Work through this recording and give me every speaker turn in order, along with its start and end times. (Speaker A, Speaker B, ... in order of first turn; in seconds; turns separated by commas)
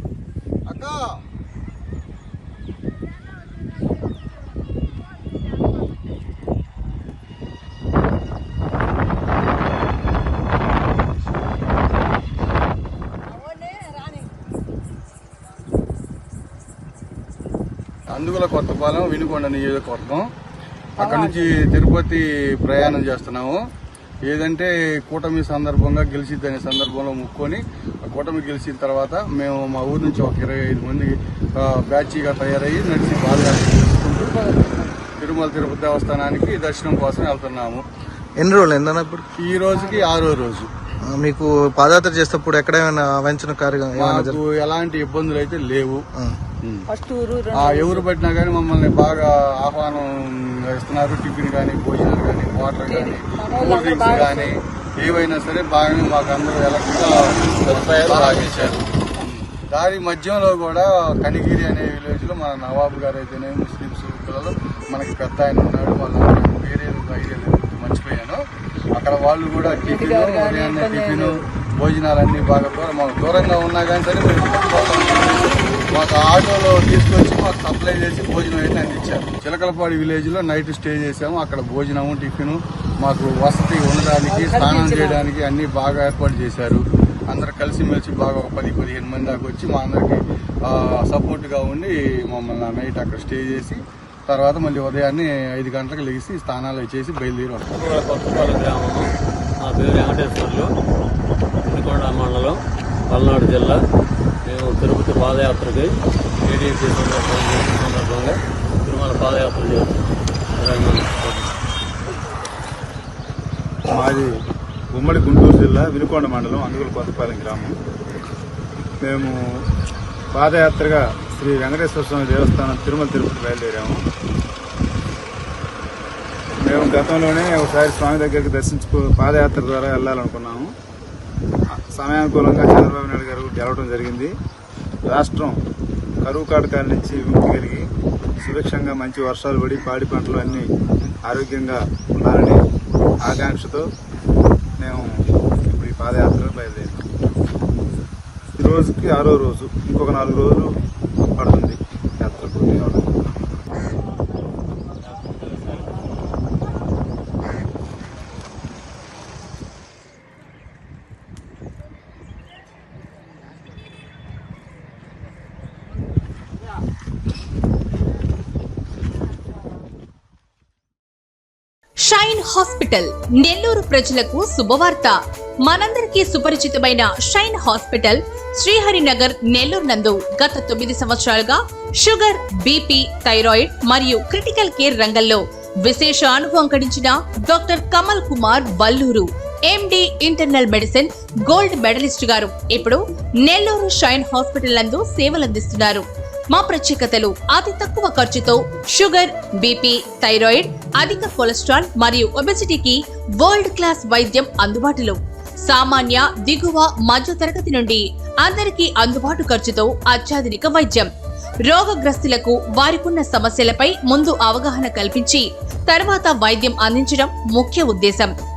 Speaker A: 0.7-1.2, Speaker B: 13.4-14.3, Speaker A: 18.1-20.3, Speaker A: 21.0-23.6, Speaker B: 21.0-21.5, Speaker A: 24.3-34.4, Speaker B: 34.2-35.0, Speaker A: 35.2-37.8, Speaker C: 38.5-39.2, Speaker A: 39.4-40.7, Speaker B: 39.7-40.1, Speaker C: 41.2-42.4, Speaker C: 42.9-44.2, Speaker A: 43.9-46.0, Speaker B: 46.9-48.1, Speaker A: 47.5-68.4, Speaker B: 52.9-54.5, Speaker A: 68.9-97.7, Speaker B: 69.8-71.3, Speaker B: 84.3-85.3, Speaker D: 97.7-99.1, Speaker D: 99.6-100.7, Speaker D: 101.7-102.6, Speaker D: 103.1-103.8, Speaker D: 104.5-105.9, Speaker D: 106.5-110.0, Speaker D: 110.6-111.5, Speaker E: 113.9-114.3, Speaker E: 114.9-117.8, Speaker E: 119.0-119.4, Speaker E: 120.3-124.0, Speaker E: 126.6-130.7, Speaker E: 131.7-134.3, Speaker E: 135.1-135.6, Speaker E: 136.2-137.9, Speaker E: 138.4-140.7, Speaker E: 141.2-142.6, Speaker E: 143.2-143.9, Speaker E: 144.8-147.0, Speaker E: 148.6-150.8, Speaker E: 151.3-153.3, Speaker F: 172.1-211.1, Speaker F: 211.7-218.3